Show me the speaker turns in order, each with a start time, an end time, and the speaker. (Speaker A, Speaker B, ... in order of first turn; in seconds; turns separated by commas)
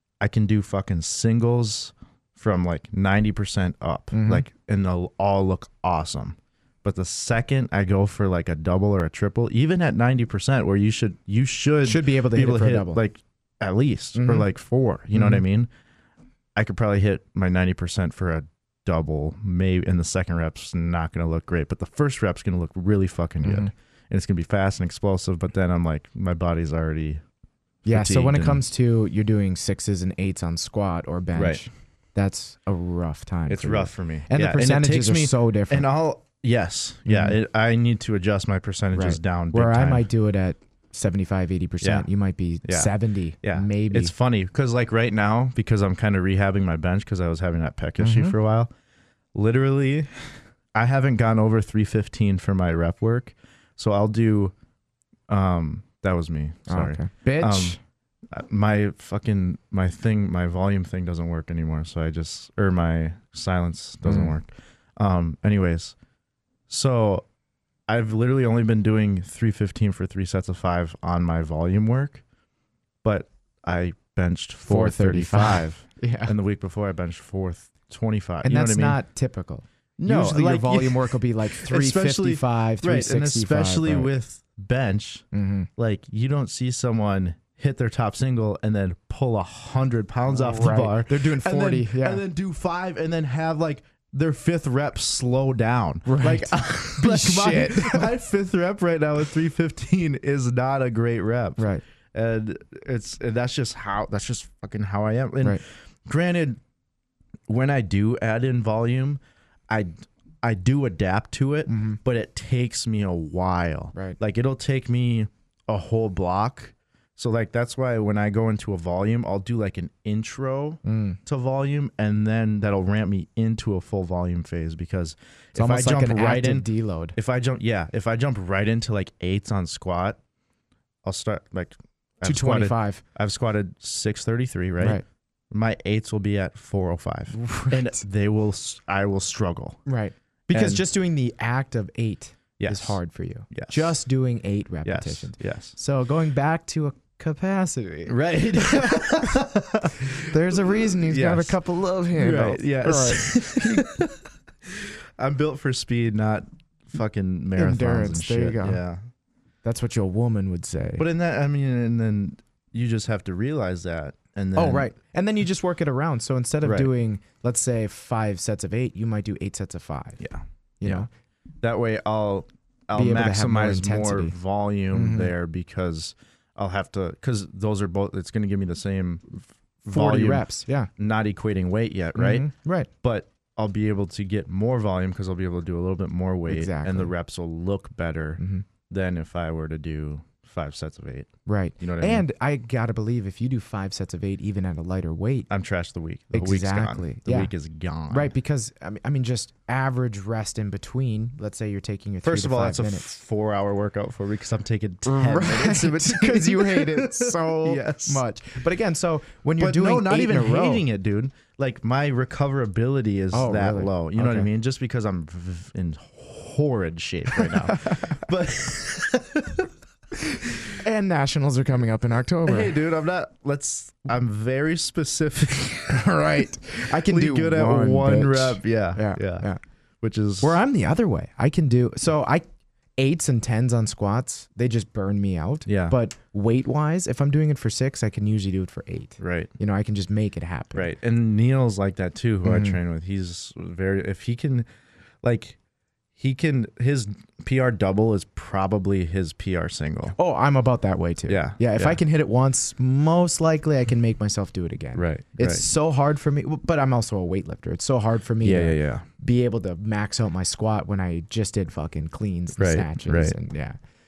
Speaker A: 0.2-15.7, Speaker B: 4.1-4.5, Speaker B: 11.8-13.0, Speaker B: 14.2-14.5, Speaker B: 15.1-15.4, Speaker A: 16.6-27.2, Speaker B: 23.4-23.7, Speaker A: 27.9-28.6, Speaker B: 27.9-35.9, Speaker A: 31.4-31.6, Speaker A: 33.5-40.1, Speaker B: 37.1-37.4, Speaker B: 38.9-44.1, Speaker A: 41.8-42.1, Speaker A: 42.6-42.9, Speaker A: 43.4-48.7, Speaker B: 48.0-48.4, Speaker A: 49.4-54.5, Speaker A: 55.3-57.8, Speaker B: 56.7-57.8, Speaker A: 58.3-66.0, Speaker B: 64.0-64.3, Speaker A: 66.7-67.2, Speaker A: 67.9-72.2, Speaker A: 73.0-79.0, Speaker B: 74.7-76.3, Speaker B: 78.4-84.1, Speaker A: 80.0-85.3, Speaker B: 85.3-85.7, Speaker A: 85.8-106.6, Speaker B: 90.3-92.2, Speaker B: 96.1-98.2, Speaker B: 101.6-101.8, Speaker A: 107.5-130.2, Speaker B: 111.7-112.0, Speaker B: 120.8-121.2, Speaker B: 125.5-127.2, Speaker A: 131.1-139.8, Speaker B: 132.2-133.0, Speaker B: 137.4-137.9, Speaker B: 139.9-149.3, Speaker A: 140.5-140.8, Speaker A: 142.6-143.0, Speaker A: 143.5-143.9, Speaker A: 144.8-145.8, Speaker A: 148.1-151.6, Speaker B: 150.1-153.9, Speaker A: 152.2-159.0, Speaker B: 157.6-158.8, Speaker B: 159.6-161.1, Speaker A: 161.0-164.9, Speaker B: 164.6-170.2, Speaker A: 166.6-166.9, Speaker A: 170.2-171.1, Speaker B: 170.8-171.1, Speaker A: 171.6-192.2, Speaker B: 172.9-174.3, Speaker B: 174.9-175.3, Speaker B: 179.9-180.9, Speaker B: 182.2-182.9, Speaker B: 186.5-187.1, Speaker B: 188.4-188.7, Speaker B: 191.5-195.5, Speaker A: 195.5-198.3, Speaker B: 196.3-197.5, Speaker B: 198.1-203.2, Speaker A: 202.2-208.2, Speaker B: 205.1-210.8, Speaker A: 209.6-219.7, Speaker B: 213.3-214.5, Speaker B: 217.3-218.2, Speaker A: 220.3-220.8, Speaker B: 220.8-222.8, Speaker A: 222.4-226.1, Speaker B: 225.9-229.6, Speaker A: 226.8-229.5, Speaker A: 230.0-230.6, Speaker B: 230.4-232.5, Speaker B: 233.0-240.9, Speaker A: 235.7-236.0, Speaker A: 239.2-239.5, Speaker A: 240.8-244.7, Speaker B: 242.4-242.8, Speaker A: 245.2-245.6, Speaker A: 246.2-250.2, Speaker B: 250.2-263.8, Speaker A: 251.3-252.0, Speaker A: 254.9-255.6, Speaker A: 258.4-259.1, Speaker A: 262.6-263.4